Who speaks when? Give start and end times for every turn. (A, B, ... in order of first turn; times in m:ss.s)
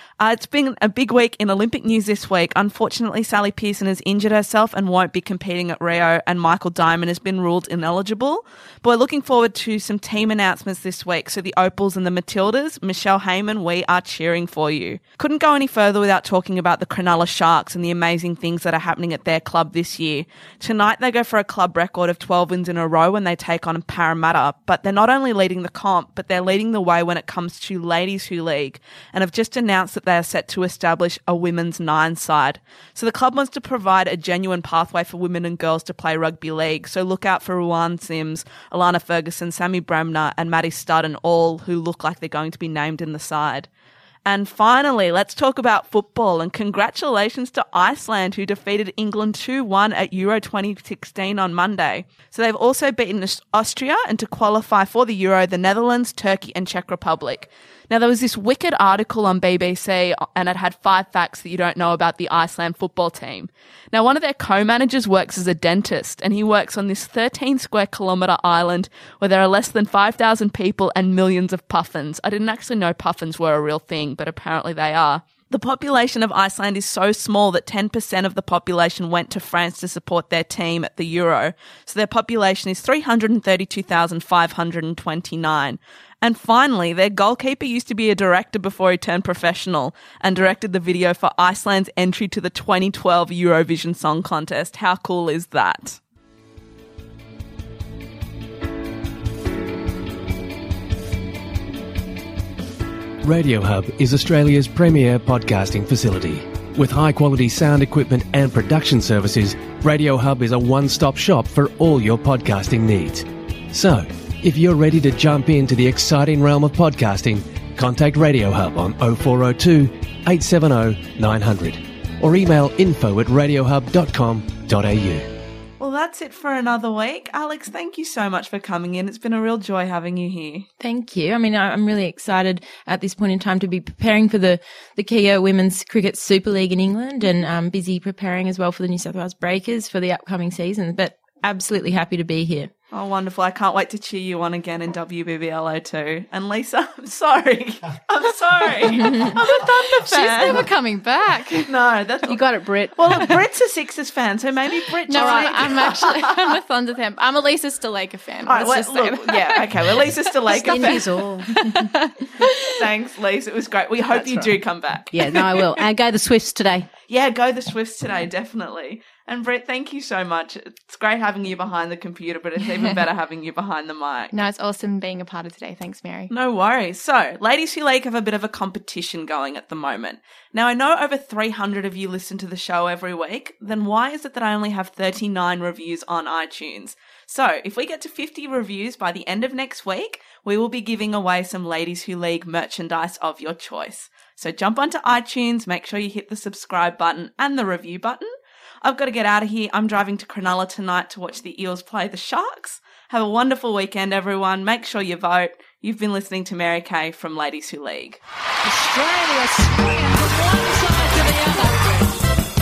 0:00.2-0:43.7 A
0:44.2-1:36.0 A
1:43.2-2:05.3 B
2:05.8-2:10.7 A
2:10.8-2:22.7 C
2:22.9-2:30.7 A
2:29.0-2:31.7 D
2:31.6-2:32.4 A
2:32.3-2:33.3 E
2:33.0-2:36.6 A
2:35.1-2:42.8 D
2:35.2-2:35.5 E
2:38.5-2:41.1 A
2:40.5-2:41.9 E
2:42.6-2:45.8 A
2:44.1-2:44.6 E
2:45.1-2:46.9 E
2:47.1-2:54.3 A
2:54.3-2:56.3 D
2:56.3-3:18.3 A
3:18.8-3:28.2 A
3:28.6-3:32.2 F